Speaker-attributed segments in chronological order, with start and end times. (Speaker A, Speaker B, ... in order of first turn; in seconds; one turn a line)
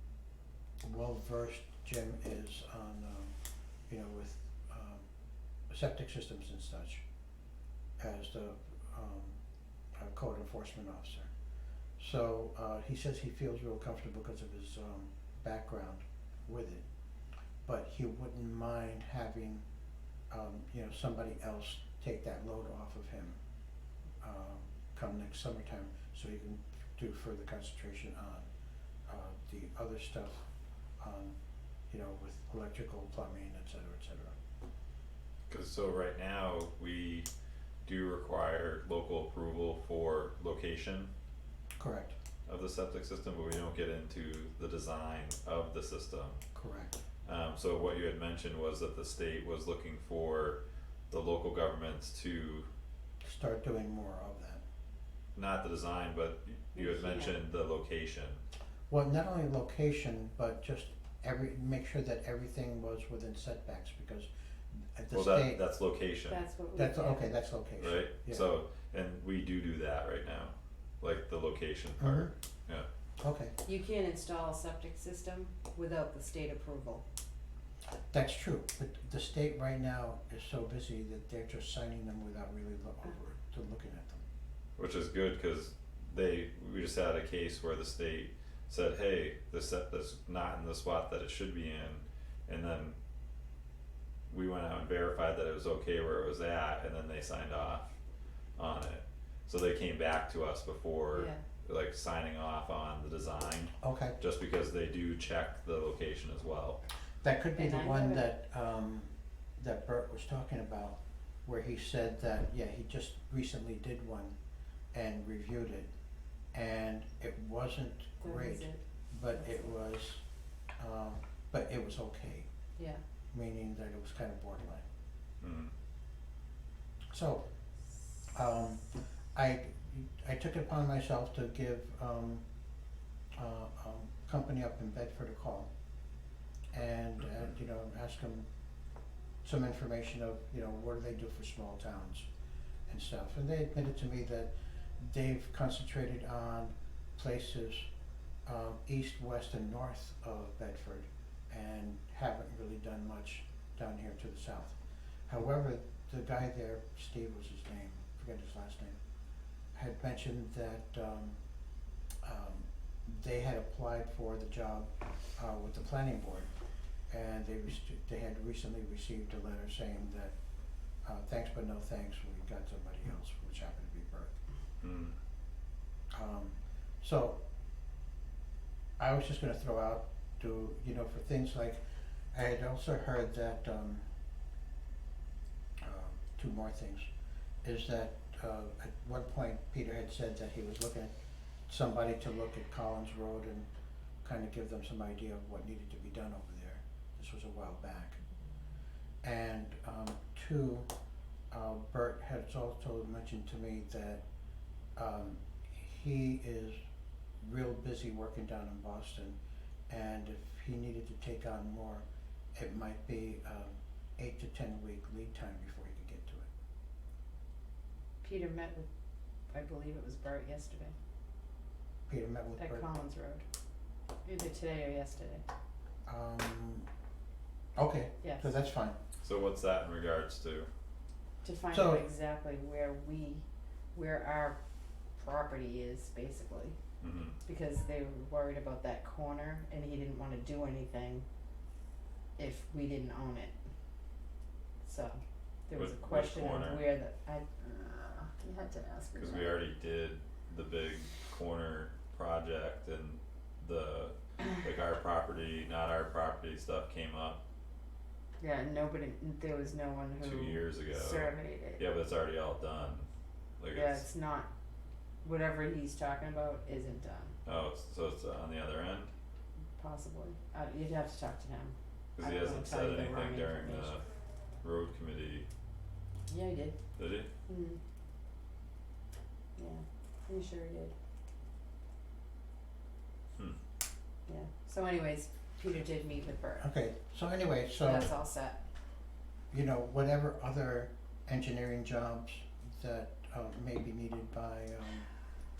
Speaker A: 0.8-3.3
Speaker A: 3.9-5.1
Speaker A: 5.7-7.0
Speaker A: 8.0-9.4
Speaker A: 9.9-11.3
Speaker A: 12.0-16.9
Speaker A: 17.6-19.6
Speaker A: 20.3-23.4
Speaker A: 24.2-28.5
Speaker A: 29.1-30.5
Speaker A: 31.0-31.4
Speaker A: 31.9-34.4
Speaker B: 35.5-37.3
Speaker B: 37.8-41.1
Speaker A: 41.8-42.1
Speaker B: 42.5-46.4
Speaker A: 46.5-47.0
Speaker B: 47.2-50.6
Speaker B: 51.1-52.7
Speaker A: 53.2-54.6
Speaker B: 55.3-58.4
Speaker C: 56.7-57.3
Speaker A: 58.9-65.6
Speaker B: 65.1-66.4
Speaker C: 66.3-67.3
Speaker A: 66.7-68.5
Speaker B: 67.8-72.9
Speaker A: 72.0-72.3
Speaker A: 73.2-73.5
Speaker C: 73.6-77.0
Speaker A: 78.1-84.2
Speaker B: 84.8-93.0
Speaker B: 94.3-97.9
Speaker B: 98.6-106.8
Speaker C: 101.1-101.4
Speaker A: 103.8-104.2
Speaker A: 107.2-114.4
Speaker C: 107.5-108.2
Speaker A: 114.9-115.9
Speaker A: 116.5-120.2
Speaker C: 118.2-118.8
Speaker C: 119.3-119.7
Speaker A: 120.8-122.5
Speaker A: 123.3-124.8
Speaker B: 125.4-125.7
Speaker A: 127.1-127.4
Speaker A: 128.3-132.4
Speaker A: 133.3-135.7
Speaker A: 136.7-138.5
Speaker A: 139.4-142.3
Speaker A: 142.9-147.9
Speaker A: 148.4-159.0
Speaker A: 159.7-161.4
Speaker A: 162.2-166.5
Speaker A: 167.1-170.3
Speaker A: 171.0-174.3
Speaker B: 174.8-175.1
Speaker A: 176.1-177.4
Speaker A: 179.0-181.8
Speaker A: 182.3-184.0
Speaker A: 185.8-187.1
Speaker A: 187.6-191.1
Speaker A: 191.7-193.7
Speaker A: 194.2-198.2
Speaker A: 199.2-200.9
Speaker A: 201.5-204.2
Speaker A: 204.9-206.8
Speaker A: 207.4-209.4
Speaker A: 209.9-216.5
Speaker C: 218.2-218.9
Speaker C: 219.5-220.9
Speaker A: 222.1-222.9
Speaker C: 222.6-223.4
Speaker C: 224.2-225.4
Speaker A: 226.1-226.9
Speaker A: 227.8-229.0
Speaker C: 228.2-228.5
Speaker B: 229.2-230.7
Speaker C: 231.4-234.6
Speaker A: 231.7-232.0
Speaker C: 235.2-236.8
Speaker B: 237.0-237.4
Speaker C: 237.4-241.2
Speaker C: 242.4-243.5
Speaker C: 244.8-249.5
Speaker B: 245.7-246.8
Speaker B: 249.1-257.4
Speaker C: 258.4-261.8
Speaker B: 260.2-263.1
Speaker B: 263.6-264.0
Speaker C: 263.7-264.5
Speaker C: 265.2-267.4
Speaker B: 267.4-269.1
Speaker C: 269.8-274.0
Speaker B: 272.2-274.0
Speaker B: 274.6-275.4
Speaker C: 276.3-276.8
Speaker B: 277.0-277.3
Speaker C: 277.5-277.8
Speaker C: 279.6-280.9
Speaker C: 284.3-286.6
Speaker A: 286.6-288.1
Speaker C: 287.8-288.6
Speaker A: 289.5-295.1